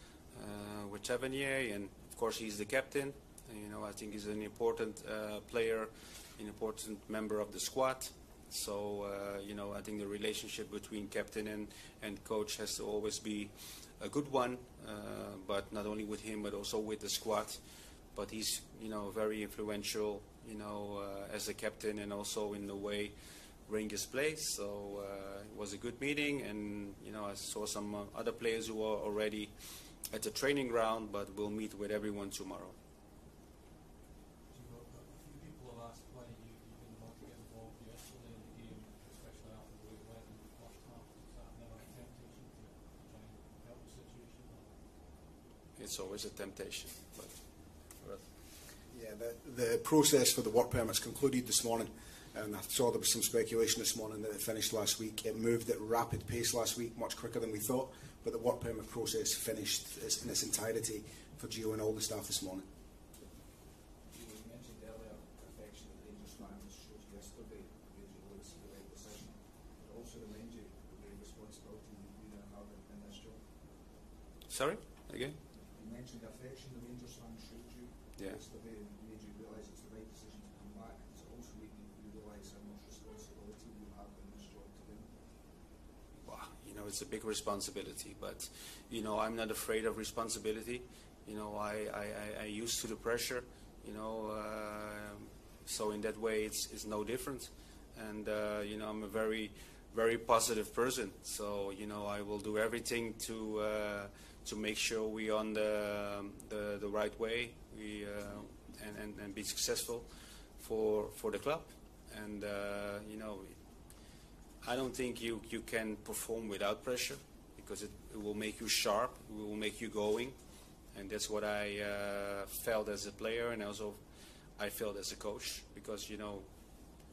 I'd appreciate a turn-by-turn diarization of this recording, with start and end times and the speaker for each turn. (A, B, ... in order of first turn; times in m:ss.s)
0:00.3-0:32.8 A
0:34.5-0:44.8 B
0:45.7-0:48.3 A
0:48.9-1:02.7 C
1:04.0-1:13.8 D
1:14.5-1:15.4 A
1:15.5-1:25.2 D
1:18.2-1:18.4 A
1:26.2-1:53.6 A
1:54.6-2:00.4 A
2:00.9-2:04.0 A
2:04.5-2:06.5 A